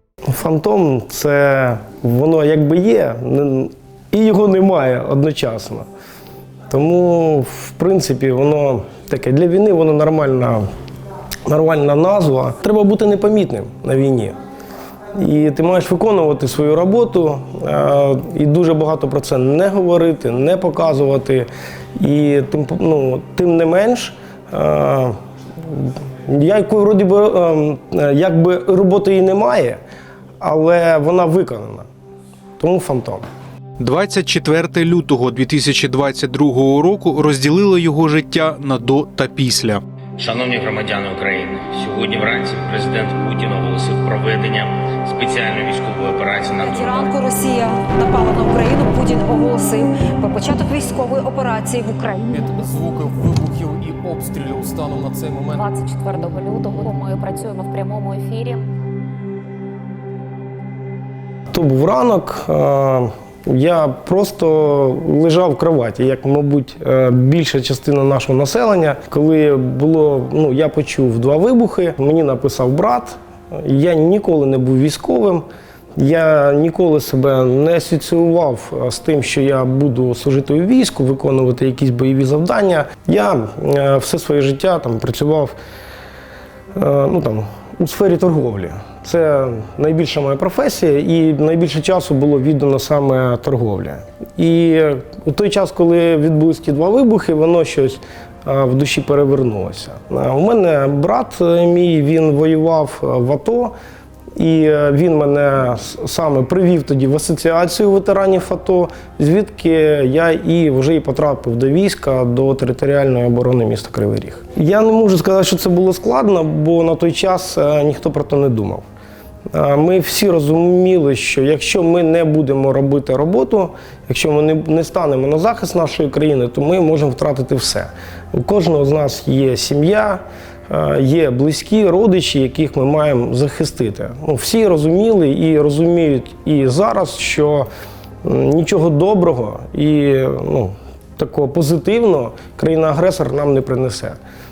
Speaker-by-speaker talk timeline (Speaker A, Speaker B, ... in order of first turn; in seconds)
Speaker A: 0.2-5.9, 6.7-10.7, 11.5-14.3, 15.1-25.2, 25.7-29.8, 30.4-31.9, 32.6-33.3, 61.5-75.5, 76.0-85.5, 86.8-103.7, 104.4-118.8, 119.5-137.7, 138.2-144.2
Speaker B: 33.8-39.8
Speaker C: 40.2-47.2
Speaker D: 46.6-52.5
Speaker E: 52.3-55.8
Speaker F: 55.6-58.6